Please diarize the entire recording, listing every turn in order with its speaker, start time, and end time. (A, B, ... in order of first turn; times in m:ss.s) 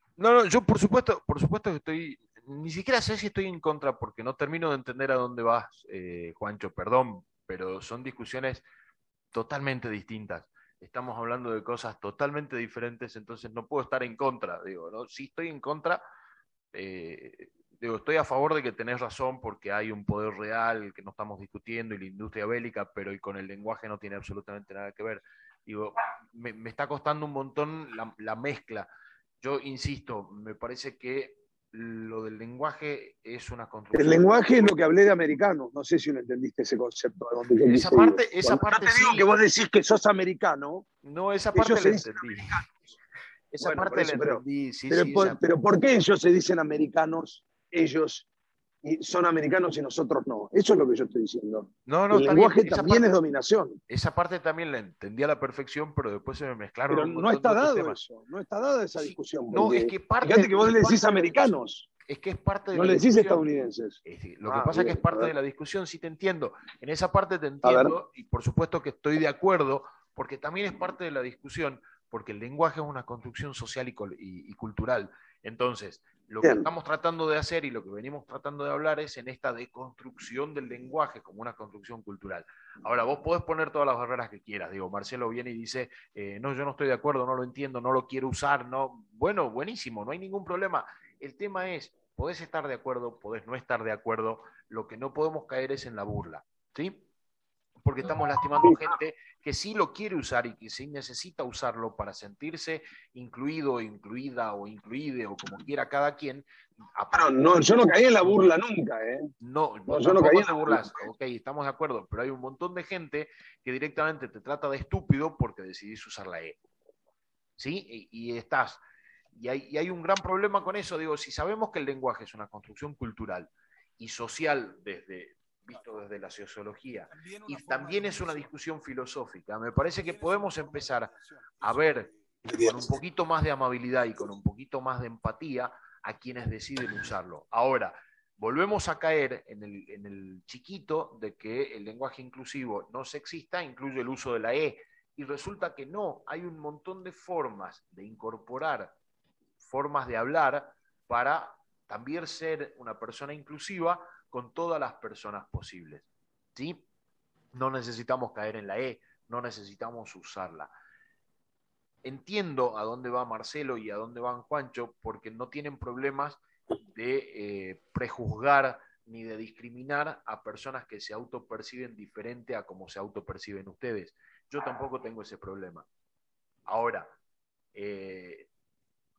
0:00.2-0:08.6 A
0:09.3-0:16.0 A
0:16.7-0:28.9 A
0:29.4-0:34.7 A
0:33.9-0:40.9 B
0:37.6-0:39.3 A
0:41.0-0:42.6 A
0:41.5-0:42.7 B
0:43.5-0:45.4 A
0:43.6-0:48.3 B
0:48.8-0:53.8 B
0:51.9-0:53.1 A
0:53.9-0:58.0 A
0:56.9-1:01.9 B
0:59.0-1:01.5 A
1:02.0-1:03.4 A
1:02.7-1:05.3 B
1:04.0-1:37.0 A
1:07.6-1:07.9 B
1:16.4-1:16.7 B
1:37.8-1:47.7 A
1:47.1-1:49.3 B
1:49.4-1:56.6 A
1:49.9-1:51.0 B
1:57.6-1:58.8 A
1:59.3-2:28.9 A
2:07.1-2:08.5 B
2:10.0-2:11.9 B
2:12.4-2:12.9 B
2:29.6-2:36.8 A
2:37.5-2:40.7 A
2:42.0-2:55.8 A
2:56.7-2:57.1 A
2:57.7-2:58.5 A